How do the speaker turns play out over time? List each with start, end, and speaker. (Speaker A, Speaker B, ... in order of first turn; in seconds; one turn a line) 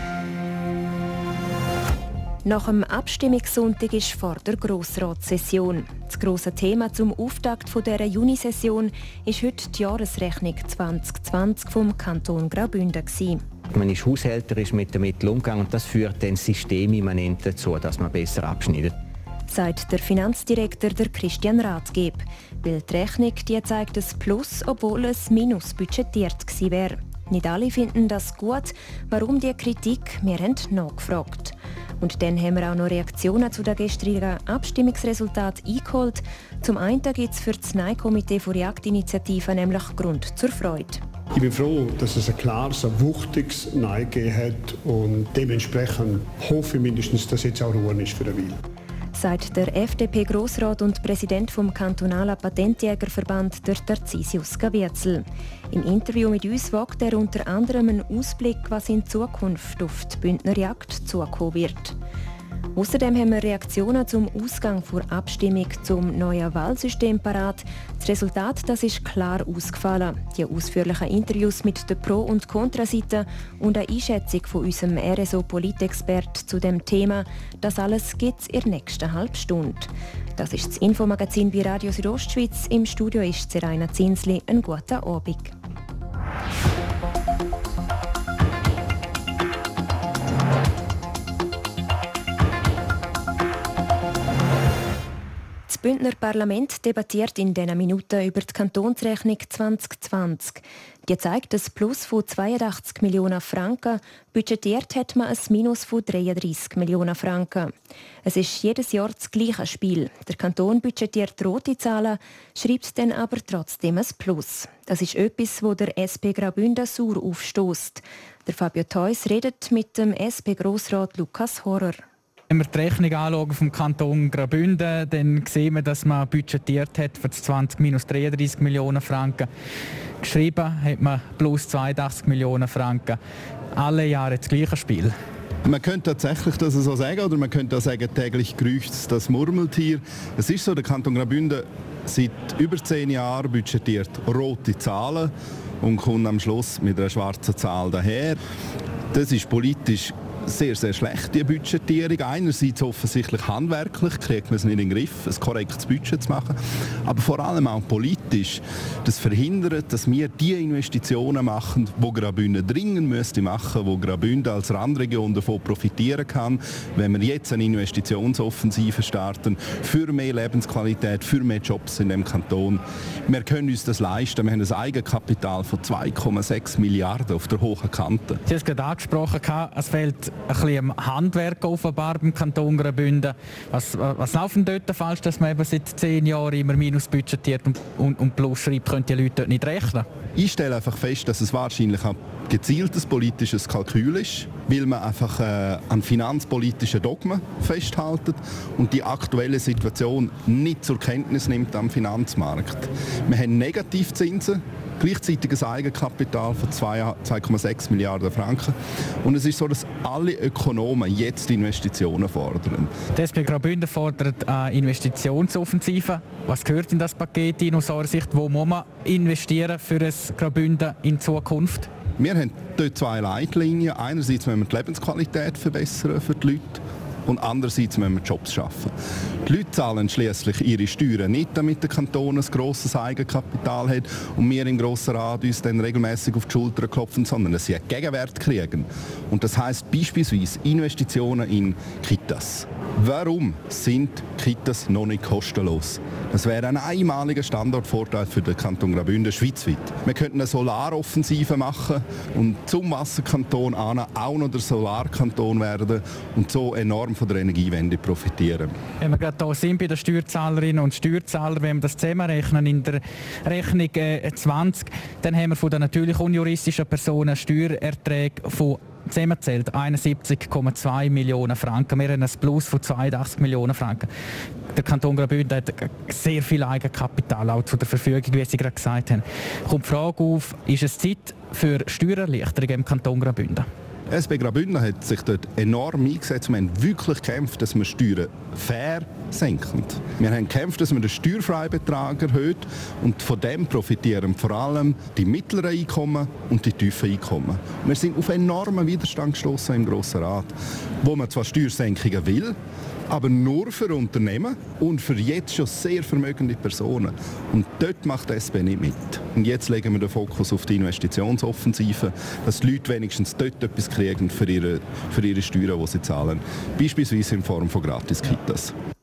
Speaker A: 2.4-13.4
Speaker B: 13.7-18.9
Speaker A: 19.5-41.0
Speaker C: 41.3-48.6
Speaker A: 49.1-62.0
Speaker A: 62.7-85.5
Speaker A: 95.7-107.7
Speaker A: 108.2-122.0
Speaker D: 122.5-129.5
Speaker D: 130.2-133.2
Speaker D: 133.8-135.1
Speaker E: 135.7-148.4
Speaker E: 149.1-178.4
Speaker D: 178.5-190.1
Speaker E: 190.3-212.9
Speaker D: 213.1-221.9
Speaker E: 222.2-228.9
Speaker E: 229.4-258.7
Speaker D: 259.0-274.1
Speaker D: 274.7-283.7
Speaker E: 284.1-302.6
Speaker E: 303.1-318.7